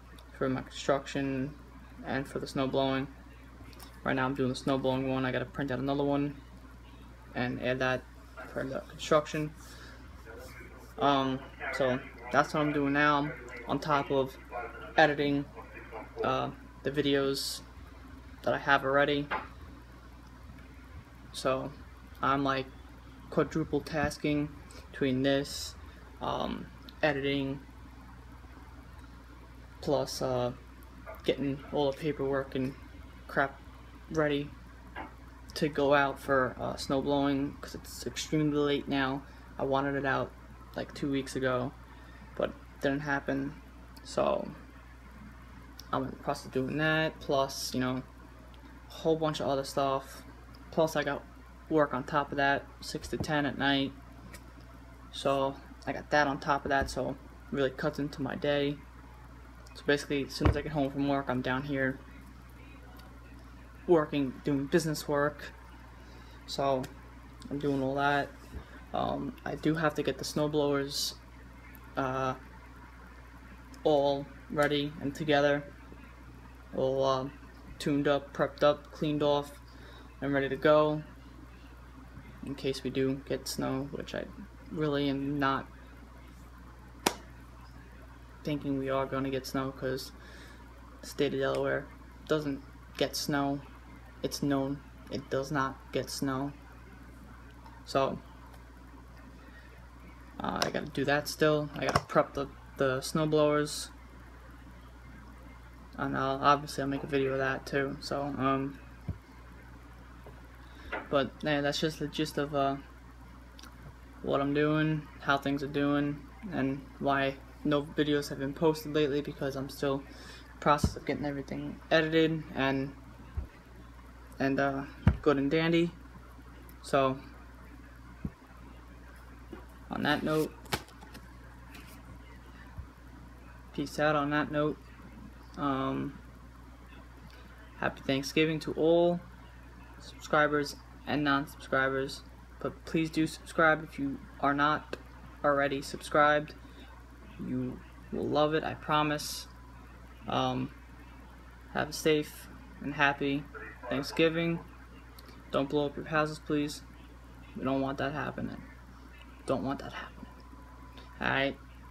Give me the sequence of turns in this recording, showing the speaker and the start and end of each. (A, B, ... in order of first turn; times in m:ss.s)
0:00.3-0:03.1 A
0:04.0-0:06.4 A
0:07.3-0:09.5 A
0:11.0-0:14.4 A
0:15.0-0:15.5 A
0:16.2-0:17.6 A
0:18.4-0:19.3 A
0:21.3-0:22.7 A
0:23.3-0:27.6 A
0:29.8-0:30.6 A
0:31.2-0:34.5 A
0:35.5-0:41.8 A
0:42.3-0:44.5 A
0:45.9-0:48.0 A
0:48.9-0:53.9 A
0:55.1-0:58.8 A
0:59.7-1:02.0 A
1:03.8-1:05.5 A
1:06.4-1:06.9 A
1:07.5-1:08.3 A
1:08.9-1:11.2 A
1:12.0-1:12.4 A
1:13.8-1:15.7 A
1:16.7-1:19.6 A
1:20.2-1:21.0 A
1:22.4-1:25.7 A
1:28.4-1:30.1 A
1:31.0-1:33.6 A
1:34.2-1:36.6 A
1:37.8-1:38.2 A
1:40.4-1:43.9 A
1:46.0-1:48.8 A
1:51.1-1:52.8 A
1:54.2-2:00.0 A
2:00.6-2:03.0 A
2:04.4-2:06.0 A
2:06.8-2:07.2 A
2:09.9-2:10.5 A
2:13.7-2:14.8 A
2:15.6-2:16.2 A
2:17.8-2:19.2 A
2:20.0-2:26.6 A
2:27.4-2:29.5 A
2:30.2-2:30.7 A
2:31.7-2:34.6 A
2:35.5-2:36.8 A
2:37.5-2:38.6 A
2:39.4-2:40.3 A
2:41.2-2:41.6 A